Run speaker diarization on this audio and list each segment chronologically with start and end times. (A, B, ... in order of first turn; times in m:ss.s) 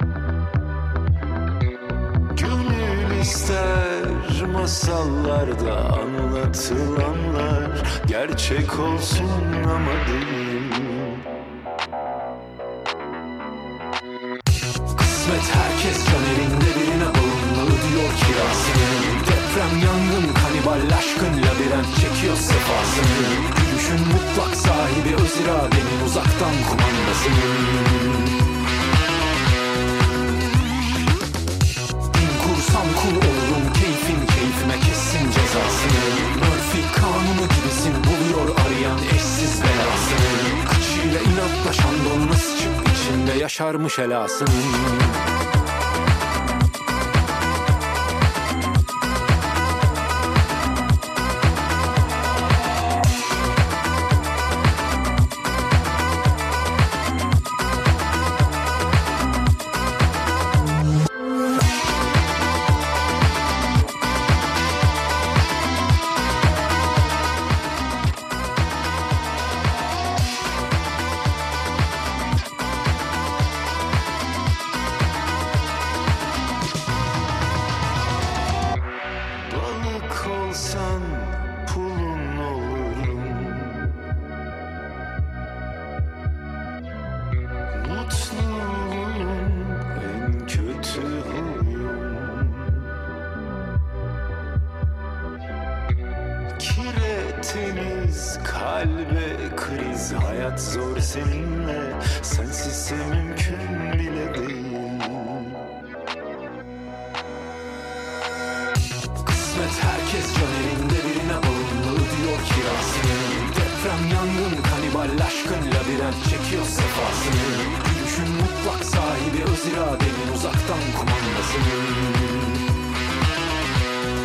0:02.3-0:11.2 A
0:14.9-0:28.4 A
0:32.1-0:45.2 A
1:19.4-1:23.9 A
1:27.7-1:32.9 A
1:36.6-1:45.6 A
1:49.2-2:02.6 A